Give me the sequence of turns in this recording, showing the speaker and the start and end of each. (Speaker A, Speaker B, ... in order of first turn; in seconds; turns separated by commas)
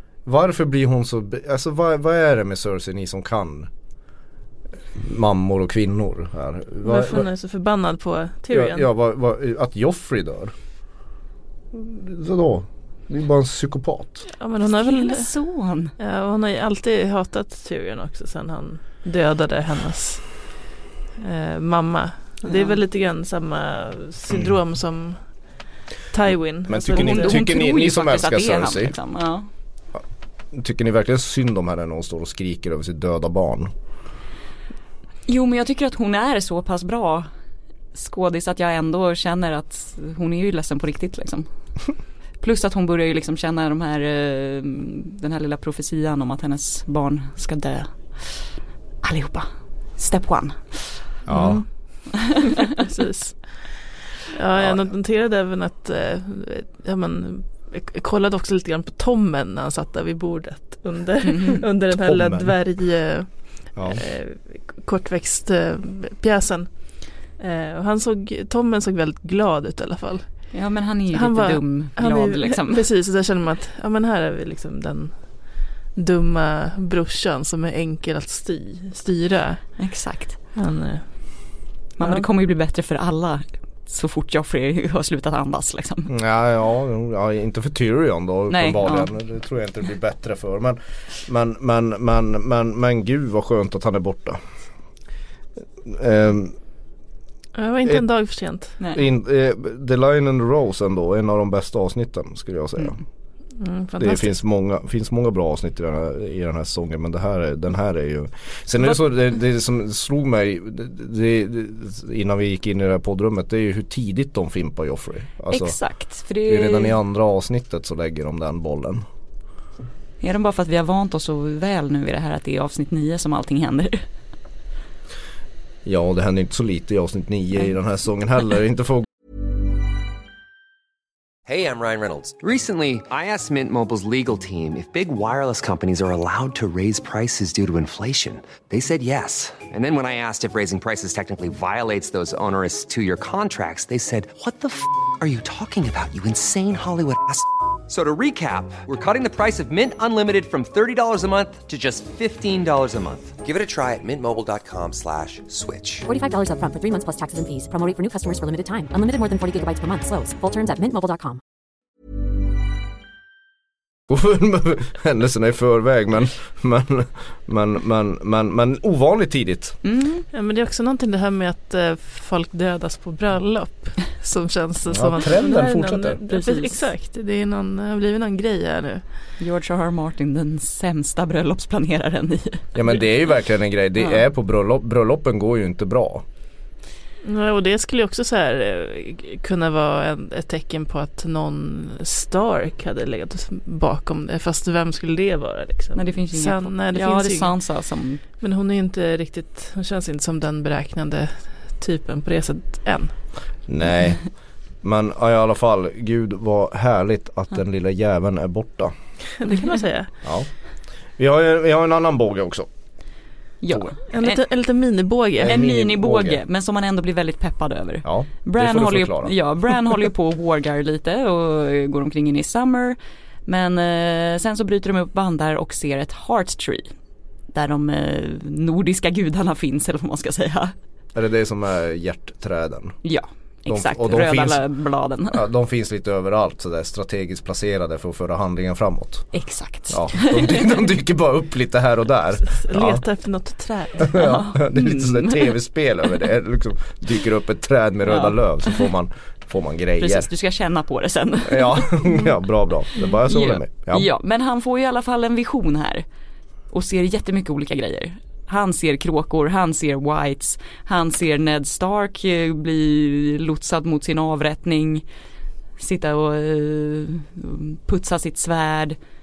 Speaker A: 0.2-3.7, Speaker A: 5.0-7.3, Speaker B: 6.8-8.9, Speaker A: 8.5-10.5, Speaker A: 11.7-14.2, Speaker B: 14.3-15.3, Speaker C: 14.8-15.9, Speaker B: 16.0-20.6, Speaker B: 21.2-25.6, Speaker C: 22.4-22.8, Speaker B: 26.1-27.3, Speaker A: 26.7-28.9, Speaker C: 26.9-29.5, Speaker A: 30.5-33.7, Speaker C: 35.3-37.3, Speaker C: 37.9-41.5, Speaker C: 42.4-51.1, Speaker A: 51.3-51.6, Speaker B: 51.3-51.6, Speaker B: 52.8-70.5, Speaker A: 54.5-54.9, Speaker C: 61.2-61.6, Speaker A: 61.9-62.6, Speaker A: 63.7-64.0, Speaker C: 70.5-72.9, Speaker B: 71.1-79.8, Speaker C: 79.8-80.4, Speaker B: 80.5-81.5, Speaker C: 82.0-86.1, Speaker A: 86.1-94.4, Speaker C: 88.5-89.1, Speaker A: 95.8-96.5, Speaker B: 97.5-98.8, Speaker A: 98.9-103.0, Speaker B: 103.6-104.3, Speaker A: 104.0-115.7, Speaker C: 115.5-117.0, Speaker A: 116.5-119.0, Speaker C: 120.2-124.0, Speaker A: 125.8-129.1, Speaker D: 131.4-156.1, Speaker E: 156.1-161.4, Speaker A: 164.1-169.8, Speaker C: 169.8-170.2, Speaker B: 170.3-179.0, Speaker A: 174.9-176.2, Speaker C: 176.3-176.9, Speaker C: 179.4-182.9, Speaker A: 182.7-186.2, Speaker B: 187.2-197.5, Speaker C: 195.9-198.2, Speaker B: 198.4-203.1, Speaker A: 203.7-204.2, Speaker A: 204.8-208.9, Speaker B: 209.4-210.1, Speaker A: 210.2-210.5, Speaker A: 211.2-212.7, Speaker C: 213.6-214.4, Speaker B: 214.1-215.5, Speaker A: 215.4-216.4, Speaker C: 215.4-226.9, Speaker A: 218.0-219.3, Speaker C: 227.5-230.7, Speaker A: 231.1-233.0, Speaker C: 233.0-235.4, Speaker A: 233.7-234.6, Speaker A: 235.3-239.3, Speaker C: 239.3-240.9, Speaker A: 239.9-243.0, Speaker B: 242.4-244.1, Speaker A: 244.0-250.3, Speaker C: 244.1-245.6, Speaker C: 248.1-248.8, Speaker C: 250.0-252.1, Speaker A: 251.4-254.1, Speaker C: 253.0-256.0, Speaker C: 256.7-265.0, Speaker C: 265.8-269.0